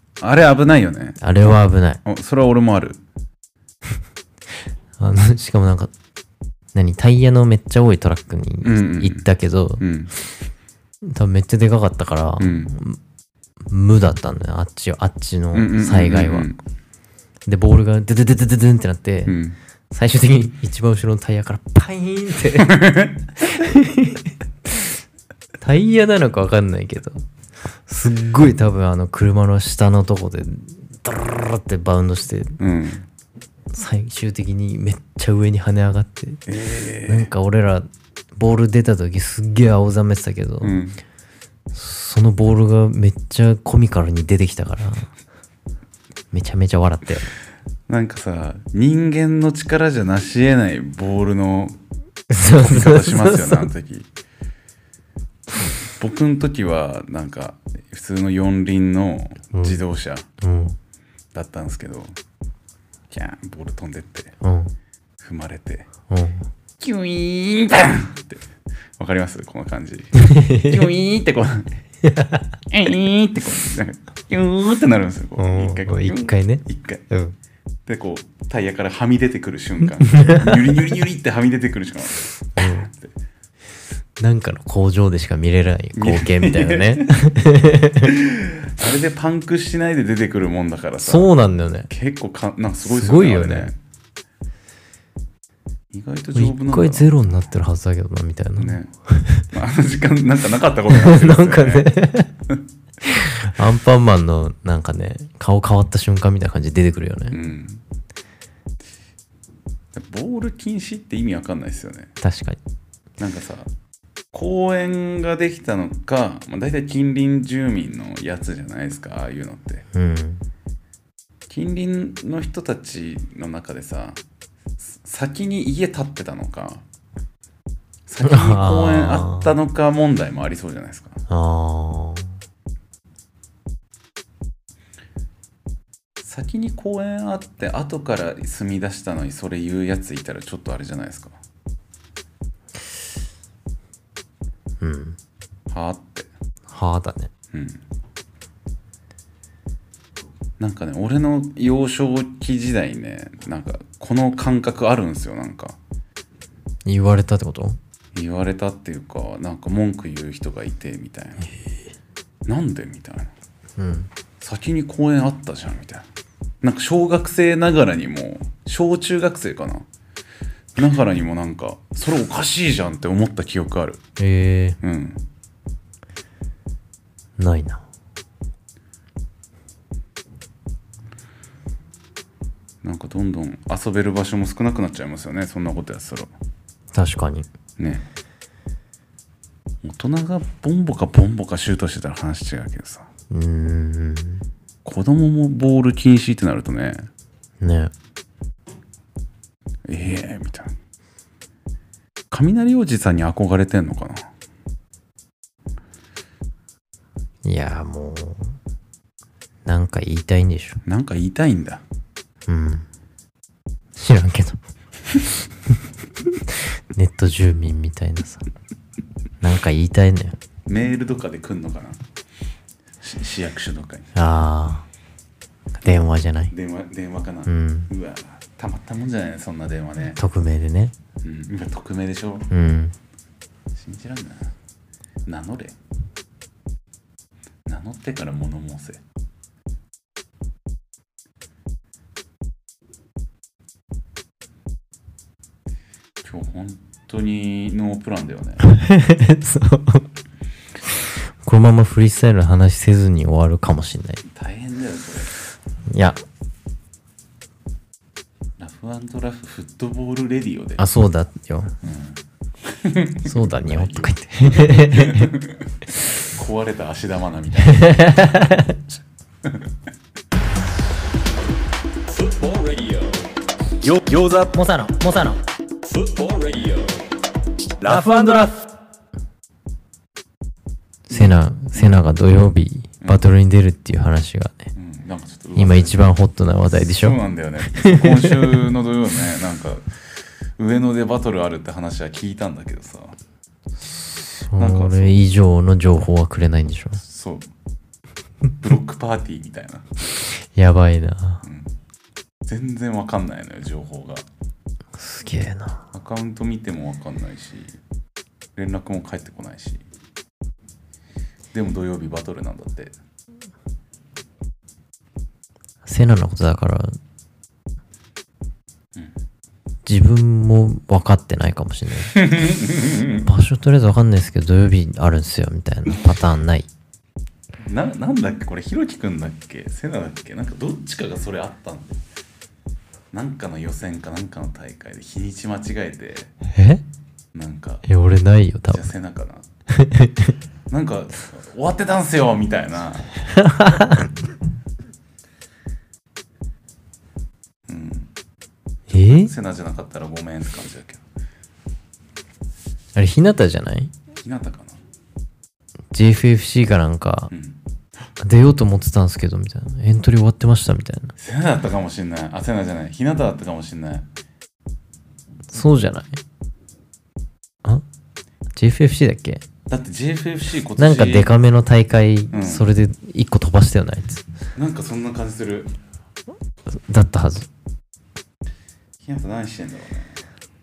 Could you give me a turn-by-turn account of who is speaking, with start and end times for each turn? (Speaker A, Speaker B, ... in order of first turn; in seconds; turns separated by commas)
Speaker A: 0.2-1.2, Speaker B: 1.2-2.0, Speaker A: 2.0-3.0, Speaker B: 5.0-5.9, Speaker B: 6.7-9.9, Speaker A: 8.6-9.2, Speaker A: 9.8-10.1, Speaker B: 11.0-13.0, Speaker A: 12.4-12.7, Speaker B: 13.7-16.5, Speaker A: 15.5-16.6, Speaker B: 17.5-19.4, Speaker A: 19.3-19.6, Speaker B: 19.9-24.9, Speaker A: 22.6-23.3, Speaker B: 25.6-27.2, Speaker B: 27.9-32.6, Speaker A: 32.6-33.0, Speaker B: 33.7-36.4, Speaker A: 36.5-37.3, Speaker B: 37.1-40.8, Speaker A: 40.6-41.0, Speaker B: 41.7-45.1, Speaker B: 46.3-47.3, Speaker A: 47.9-51.8, Speaker B: 52.3-53.7, Speaker A: 52.5-54.1, Speaker A: 56.0-60.3, Speaker B: 59.5-59.8, Speaker B: 60.4-60.8, Speaker A: 61.3-62.2, Speaker A: 63.1-64.3, Speaker B: 64.4-64.7, Speaker A: 65.2-65.9, Speaker B: 66.1-66.5, Speaker A: 66.8-68.4, Speaker A: 69.0-71.8, Speaker B: 70.2-70.9, Speaker B: 72.0-72.6, Speaker A: 72.7-77.0, Speaker B: 75.4-77.3, Speaker A: 77.9-83.1, Speaker B: 80.0-80.8, Speaker B: 82.6-82.9, Speaker B: 84.2-88.2, Speaker A: 86.0-87.1, Speaker A: 88.0-91.3, Speaker B: 91.0-91.9, Speaker A: 91.9-93.8, Speaker B: 92.8-93.7, Speaker A: 95.9-97.2, Speaker B: 96.3-99.5, Speaker A: 98.6-98.9, Speaker A: 99.5-101.9, Speaker B: 100.9-102.3, Speaker B: 103.0-107.4, Speaker A: 107.3-107.8, Speaker A: 109.9-112.1, Speaker B: 112.2-112.6, Speaker A: 113.2-113.7, Speaker A: 114.3-119.9, Speaker B: 119.9-120.5, Speaker A: 121.5-124.2, Speaker A: 124.8-126.8, Speaker A: 128.1-131.2, Speaker B: 128.2-129.5, Speaker B: 131.3-132.3, Speaker A: 136.2-141.4, Speaker B: 144.8-145.2, Speaker A: 145.7-146.3, Speaker B: 146.7-147.3, Speaker A: 147.5-147.8, Speaker A: 150.6-155.8, Speaker B: 156.9-157.8, Speaker A: 158.2-161.5, Speaker A: 162.5-163.3, Speaker B: 163.8-164.1, Speaker A: 164.4-166.1, Speaker A: 166.6-169.9, Speaker A: 170.8-174.0, Speaker B: 174.2-174.8, Speaker A: 174.8-175.2, Speaker B: 177.4-177.8, Speaker A: 182.8-186.3, Speaker B: 186.9-187.5, Speaker A: 187.8-188.0, Speaker A: 189.8-193.1, Speaker B: 193.3-194.4, Speaker A: 194.8-197.1, Speaker B: 197.6-197.9, Speaker A: 199.9-200.7, Speaker A: 202.3-204.3, Speaker B: 207.4-208.6, Speaker B: 209.7-210.8, Speaker A: 210.9-211.8, Speaker B: 212.5-212.9, Speaker B: 214.0-214.6, Speaker B: 215.7-218.4, Speaker B: 219.4-220.4, Speaker A: 220.7-222.0, Speaker A: 223.0-224.1, Speaker B: 224.2-224.9, Speaker B: 225.8-226.5, Speaker A: 226.5-230.2, Speaker B: 227.5-227.9, Speaker B: 230.2-230.9, Speaker A: 231.2-232.5, Speaker B: 232.5-232.9, Speaker A: 233.7-234.5, Speaker A: 235.3-235.8, Speaker A: 237.7-239.0, Speaker A: 246.2-248.6, Speaker B: 248.6-250.1, Speaker B: 251.4-254.2, Speaker A: 254.3-255.4, Speaker B: 255.9-256.2, Speaker A: 258.6-260.9, Speaker B: 260.8-261.7, Speaker A: 261.8-268.3, Speaker B: 263.2-265.4, Speaker B: 267.6-268.8, Speaker A: 269.4-269.7, Speaker C: 272.5-273.0, Speaker C: 274.0-274.4, Speaker B: 274.4-275.4, Speaker C: 276.2-276.7, Speaker B: 277.9-278.4, Speaker C: 277.9-278.4, Speaker B: 281.1-284.7, Speaker A: 284.8-286.2, Speaker B: 285.6-288.7, Speaker A: 286.7-293.2, Speaker B: 293.9-297.0, Speaker A: 294.5-295.2, Speaker A: 297.0-297.5, Speaker A: 298.6-299.9, Speaker B: 300.5-301.5, Speaker A: 301.4-301.7, Speaker A: 302.5-304.3, Speaker B: 305.0-305.8, Speaker A: 305.9-307.8, Speaker A: 308.6-309.8, Speaker A: 311.5-312.9, Speaker B: 315.9-317.0, Speaker B: 319.9-322.3, Speaker A: 322.1-323.3, Speaker B: 323.2-326.7, Speaker A: 327.6-332.0, Speaker A: 333.1-336.3, Speaker B: 336.5-336.8, Speaker A: 337.3-337.9, Speaker B: 337.9-338.9, Speaker A: 338.7-339.5, Speaker B: 339.7-340.4, Speaker A: 340.7-343.1, Speaker B: 343.2-344.1, Speaker A: 347.7-348.1, Speaker B: 348.9-349.3, Speaker A: 348.9-351.0, Speaker B: 352.9-353.9, Speaker A: 354.2-354.8, Speaker B: 355.9-357.3, Speaker A: 357.3-357.6, Speaker B: 358.2-361.1, Speaker A: 361.2-364.1, Speaker B: 365.5-366.2, Speaker B: 368.6-369.4, Speaker A: 369.7-371.3, Speaker B: 370.8-374.2, Speaker A: 372.3-372.7, Speaker A: 374.6-375.7, Speaker B: 376.7-377.5, Speaker A: 379.0-380.2